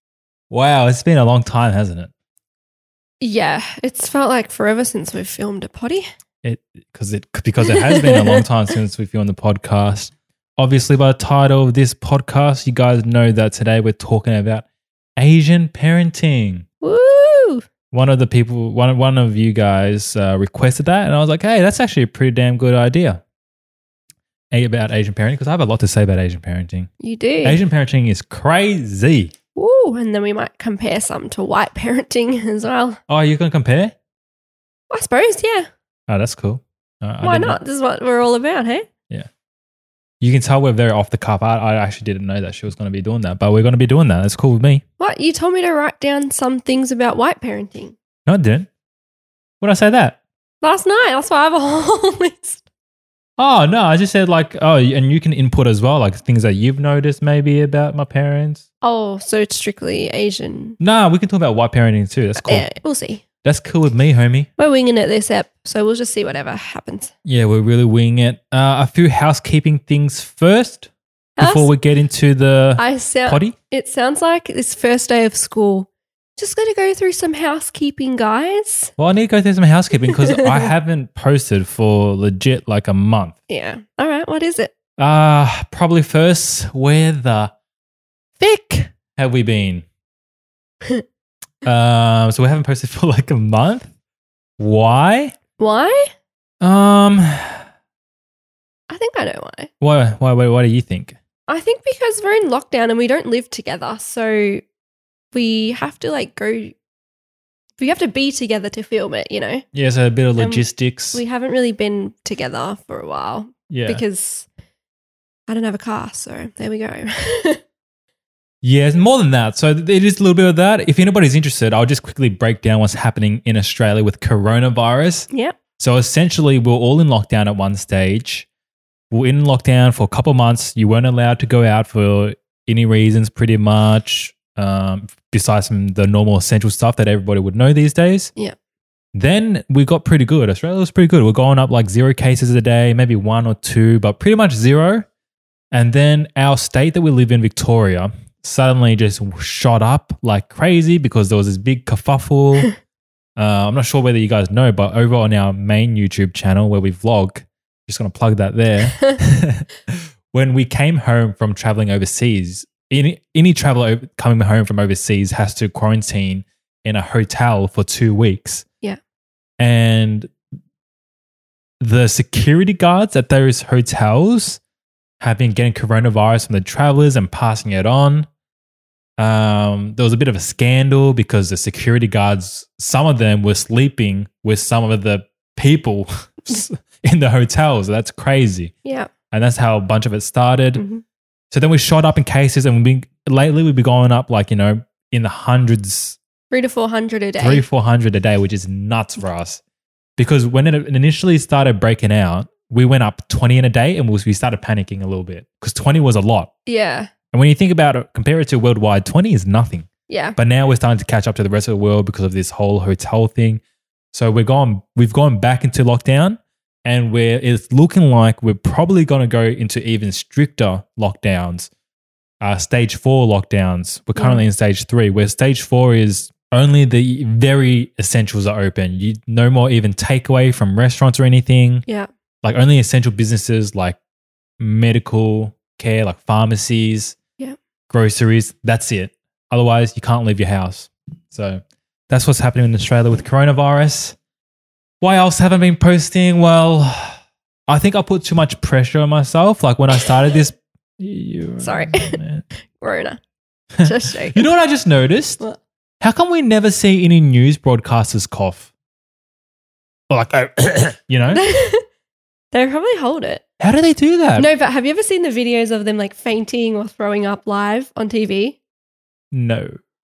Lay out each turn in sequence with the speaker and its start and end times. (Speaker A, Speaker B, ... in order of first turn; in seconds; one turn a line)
Speaker A: 0.5-2.1
Speaker B: 3.2-6.0
Speaker A: 6.4-14.7
Speaker B: 7.7-8.4
Speaker A: 15.2-16.7
Speaker B: 16.8-17.6
Speaker A: 17.9-23.2
Speaker A: 24.5-26.9
Speaker B: 27.0-27.6
Speaker A: 27.4-29.3
Speaker B: 29.6-33.0
Speaker A: 33.1-34.0
Speaker B: 34.9-35.7
Speaker A: 36.1-37.6
Speaker B: 37.2-38.9
Speaker A: 40.2-44.8
Speaker B: 45.0-48.0
Speaker A: 48.3-48.7
Speaker A: 49.6-50.2
Speaker B: 50.6-52.6
Speaker A: 53.4-58.6
Speaker B: 58.8-60.8
Speaker A: 60.8-62.7
Speaker B: 62.4-63.2
Speaker A: 63.4-64.5
Speaker B: 64.6-67.1
Speaker A: 67.2-73.5
Speaker B: 71.4-71.7
Speaker B: 72.8-78.9
Speaker A: 79.0-83.4
Speaker B: 80.1-80.7
Speaker B: 83.5-84.7
Speaker A: 85.0-87.5
Speaker A: 88.4-89.8
Speaker A: 91.6-93.9
Speaker A: 94.6-95.3
Speaker B: 95.6-96.1
Speaker A: 96.6-97.7
Speaker B: 98.9-99.7
Speaker A: 99.8-101.2
Speaker B: 101.5-104.6
Speaker B: 105.3-106.8
Speaker B: 107.8-109.6
Speaker A: 109.7-111.2
Speaker B: 110.4-114.5
Speaker A: 113.7-114.0
Speaker B: 115.5-117.6
Speaker A: 118.6-125.3
Speaker B: 125.3-125.6
Speaker A: 125.8-128.5
Speaker A: 129.1-138.3
Speaker A: 139.1-145.1
Speaker A: 145.7-152.7
Speaker A: 153.3-168.6
Speaker A: 169.6-170.3
Speaker A: 171.8-174.6
Speaker A: 175.2-178.3
Speaker A: 179.2-188.7
Speaker B: 188.8-189.1
Speaker A: 189.3-190.8
Speaker B: 190.7-191.0
Speaker A: 191.5-196.2
Speaker B: 196.5-197.6
Speaker A: 197.4-199.6
Speaker A: 200.2-206.5
Speaker B: 206.7-207.1
Speaker A: 207.3-213.6
Speaker B: 210.1-210.4
Speaker A: 214.1-221.7
Speaker A: 222.4-231.8
Speaker B: 224.2-224.4
Speaker A: 232.4-234.0
Speaker A: 234.6-237.2
Speaker A: 237.9-244.2
Speaker A: 245.0-252.4
Speaker B: 251.6-253.2
Speaker A: 253.8-255.4
Speaker B: 253.8-254.5
Speaker A: 256.0-258.7
Speaker A: 260.1-261.4
Speaker B: 261.3-261.8
Speaker B: 262.5-263.4
Speaker A: 263.6-264.5
Speaker B: 264.4-268.6
Speaker A: 269.3-269.8